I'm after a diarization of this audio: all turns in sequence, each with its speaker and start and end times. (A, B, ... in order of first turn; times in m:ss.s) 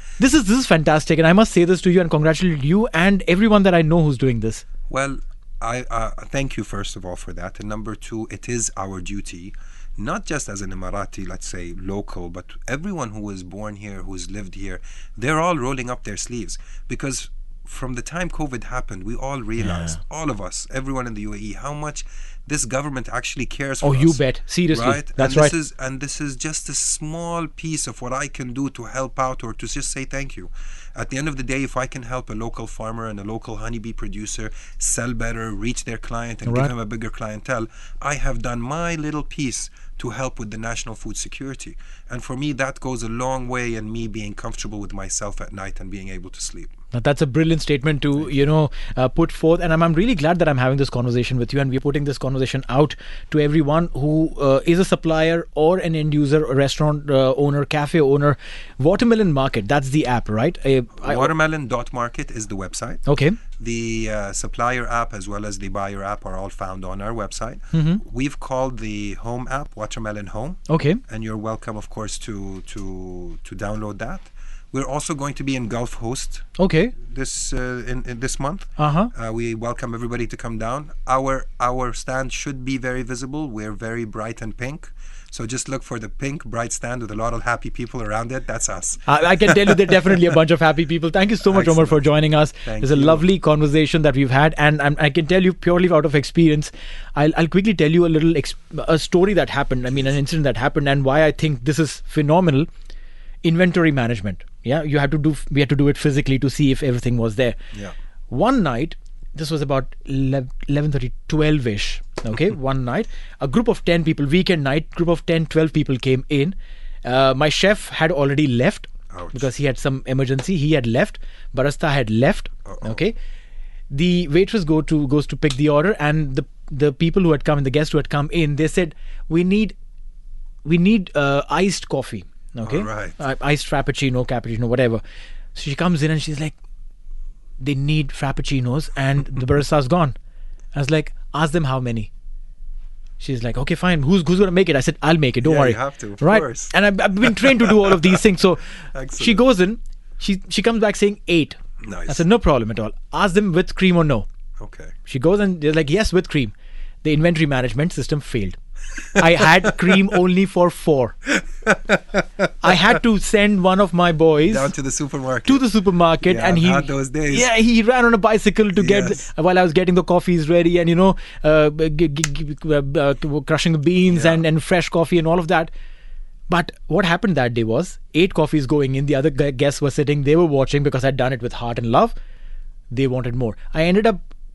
0:00.2-0:04.6 A
0:04.9-0:46.7 B
0:19.6-0:20.0 A
0:23.8-0:25.5 A
0:36.4-0:36.7 A
0:46.9-1:01.3 A
1:01.0-1:16.5 B
1:03.0-1:03.4 A
1:07.7-1:08.0 A
1:10.7-1:11.0 A
1:16.6-1:16.9 A
1:17.0-1:29.7 B
1:18.8-1:19.1 A
1:29.0-1:42.7 A
1:31.4-1:33.2 B
1:43.4-1:47.6 A
1:48.3-2:03.1 A
1:59.1-1:59.5 B
2:02.6-2:03.0 B
2:03.9-2:09.7 A
2:10.6-2:15.0 A
2:12.6-2:13.2 B
2:15.5-2:16.5 A
2:17.6-2:20.1 A
2:20.7-2:22.1 A
2:23.2-2:28.6 A
2:25.4-2:26.7 B
2:28.9-2:29.4 B
2:29.2-2:34.2 A
2:31.8-2:32.2 B
2:34.6-2:34.9 B
2:35.1-2:38.6 A
2:39.1-2:41.2 A
2:41.6-2:42.0 B
2:42.6-2:44.7 A
2:44.4-2:45.7 B
2:45.4-2:55.7 A
2:46.2-2:47.5 B
2:48.8-2:49.2 B
2:54.1-2:54.4 B
2:56.5-3:02.1 A
3:02.9-3:04.2 A